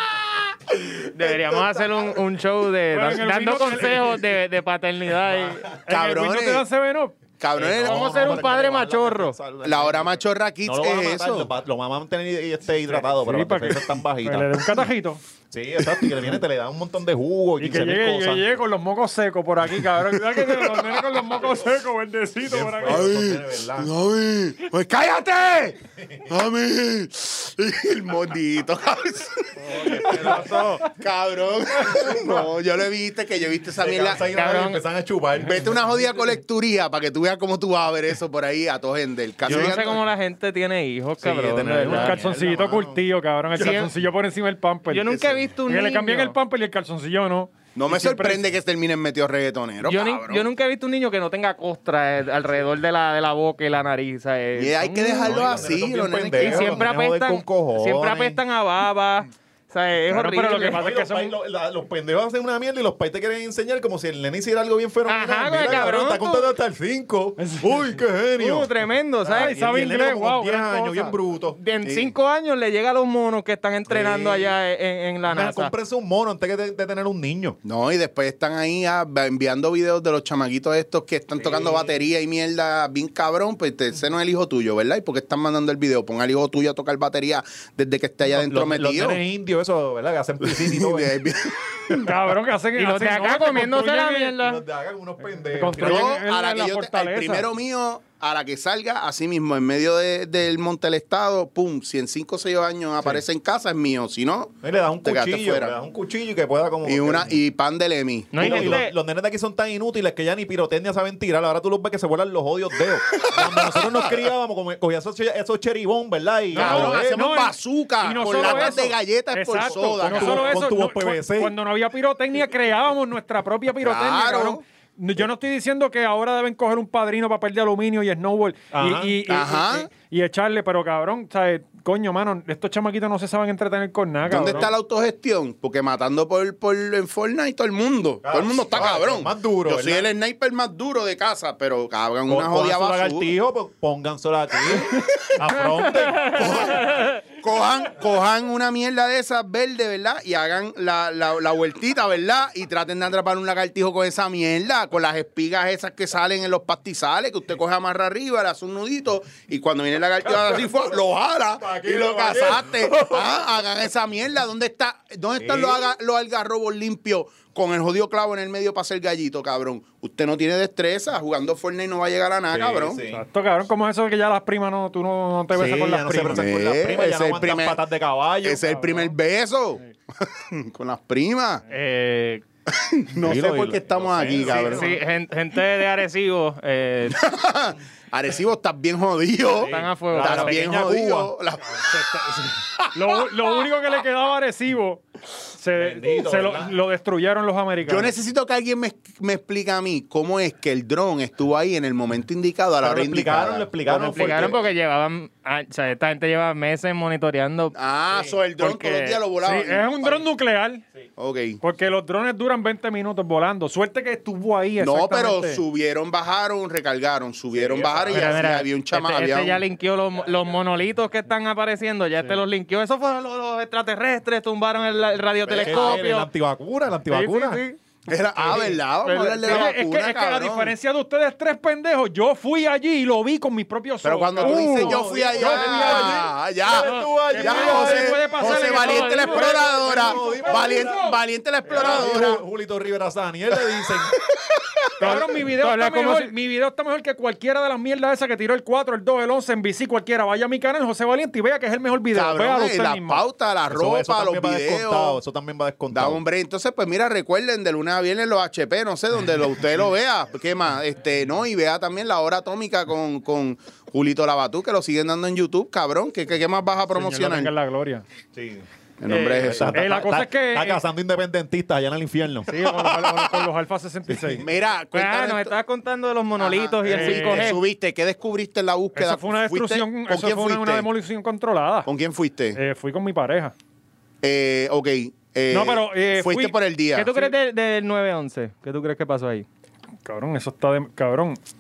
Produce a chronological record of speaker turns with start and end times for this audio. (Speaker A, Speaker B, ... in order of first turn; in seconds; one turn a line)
Speaker A: 1.0-5.7
Speaker B: 2.9-4.2
Speaker C: 5.3-5.8
Speaker B: 5.8-7.2
Speaker D: 5.9-6.6
Speaker D: 7.4-8.5
Speaker C: 7.5-14.8
Speaker A: 7.8-9.3
Speaker D: 9.6-11.5
Speaker B: 12.9-15.2
Speaker C: 15.5-18.4
Speaker B: 17.6-23.1
Speaker C: 22.4-23.9
Speaker D: 22.8-34.4
Speaker C: 26.0-26.3
Speaker A: 29.7-30.8
Speaker C: 29.9-30.5
Speaker B: 30.1-30.6
Speaker C: 33.8-36.0
Speaker A: 34.3-34.8
Speaker D: 35.4-40.0
Speaker A: 39.4-42.2
Speaker C: 39.5-39.8
Speaker C: 41.2-43.0
Speaker B: 41.8-45.1
Speaker A: 43.5-43.9
Speaker A: 44.9-46.3
Speaker D: 45.1-45.4
Speaker B: 45.6-48.4
Speaker D: 47.7-50.5
Speaker A: 49.8-55.6
Speaker D: 54.5-56.8
Speaker C: 55.2-58.4
Speaker A: 56.4-60.8
Speaker B: 60.1-61.3
Speaker C: 60.7-68.7
Speaker A: 65.0-66.5
Speaker B: 67.4-67.8
Speaker A: 68.4-69.6
Speaker C: 69.2-71.6
Speaker B: 69.4-71.2
Speaker A: 71.5-75.7
Speaker D: 71.8-72.1
Speaker C: 73.9-74.5
Speaker C: 75.3-77.6
Speaker D: 77.6-89.2
Speaker C: 81.4-81.9
Speaker C: 88.2-91.2
Speaker D: 90.4-92.1
Speaker B: 91.9-94.3
Speaker A: 92.8-94.6
Speaker C: 94.4-96.2
Speaker B: 95.5-97.5
Speaker D: 95.8-105.7
Speaker C: 104.6-107.3
Speaker D: 106.8-108.8
Speaker A: 108.3-108.9
Speaker C: 108.4-117.2
Speaker D: 113.1-114.2
Speaker D: 116.5-120.6
Speaker B: 116.5-134.7
Speaker C: 118.2-118.9
Speaker C: 119.9-121.5
Speaker D: 123.8-124.6
Speaker C: 128.7-129.2
Speaker D: 129.3-129.9
Speaker D: 134.3-143.3
Speaker C: 138.2-140.1
Speaker C: 142.3-146.8
Speaker D: 144.7-145.3
Speaker D: 146.2-173.0
Speaker C: 160.2-161.0
Speaker C: 161.6-163.4
Speaker C: 165.4-165.9
Speaker C: 172.5-173.2
Speaker B: 173.1-176.4
Speaker C: 175.5-178.6
Speaker D: 176.3-177.8
Speaker D: 178.4-181.6
Speaker B: 178.6-179.1
Speaker A: 181.7-182.4
Speaker D: 182.7-184.9
Speaker C: 183.2-185.0
Speaker A: 184.5-187.2
Speaker D: 187.1-193.2
Speaker C: 189.5-191.3
Speaker A: 189.6-190.6
Speaker B: 191.7-198.1
Speaker C: 195.8-196.7
Speaker D: 197.8-204.6
Speaker C: 202.8-204.6
Speaker A: 203.9-209.2
Speaker D: 207.7-210.2
Speaker B: 209.4-210.8
Speaker D: 211.2-211.6
Speaker B: 211.6-215.6
Speaker D: 214.8-219.6
Speaker C: 217.5-218.5
Speaker A: 218.1-226.3
Speaker D: 225.4-226.0
Speaker C: 225.6-227.6
Speaker A: 227.1-227.8
Speaker D: 228.1-230.7
Speaker A: 228.4-229.7
Speaker B: 229.4-236.3
Speaker D: 234.0-242.4
Speaker C: 234.7-238.3
Speaker B: 237.3-241.2
Speaker A: 238.3-239.6
Speaker C: 239.3-241.1
Speaker C: 241.7-244.2
Speaker A: 245.0-246.3
Speaker B: 245.0-253.2
Speaker D: 252.1-255.2
Speaker C: 253.7-256.2
Speaker D: 255.9-267.5
Speaker B: 266.9-268.0
Speaker C: 268.3-268.6
Speaker D: 269.0-270.2
Speaker A: 269.1-269.5
Speaker C: 269.4-272.6
Speaker B: 269.7-270.8
Speaker B: 272.5-274.4
Speaker C: 274.1-274.4
Speaker D: 274.4-275.5
Speaker A: 274.9-277.6
Speaker D: 276.4-280.9
Speaker B: 276.8-277.6
Speaker B: 278.9-281.9
Speaker D: 281.9-282.6
Speaker B: 282.5-283.5
Speaker D: 284.2-287.1
Speaker B: 285.5-286.6
Speaker A: 286.9-289.4
Speaker B: 290.0-291.4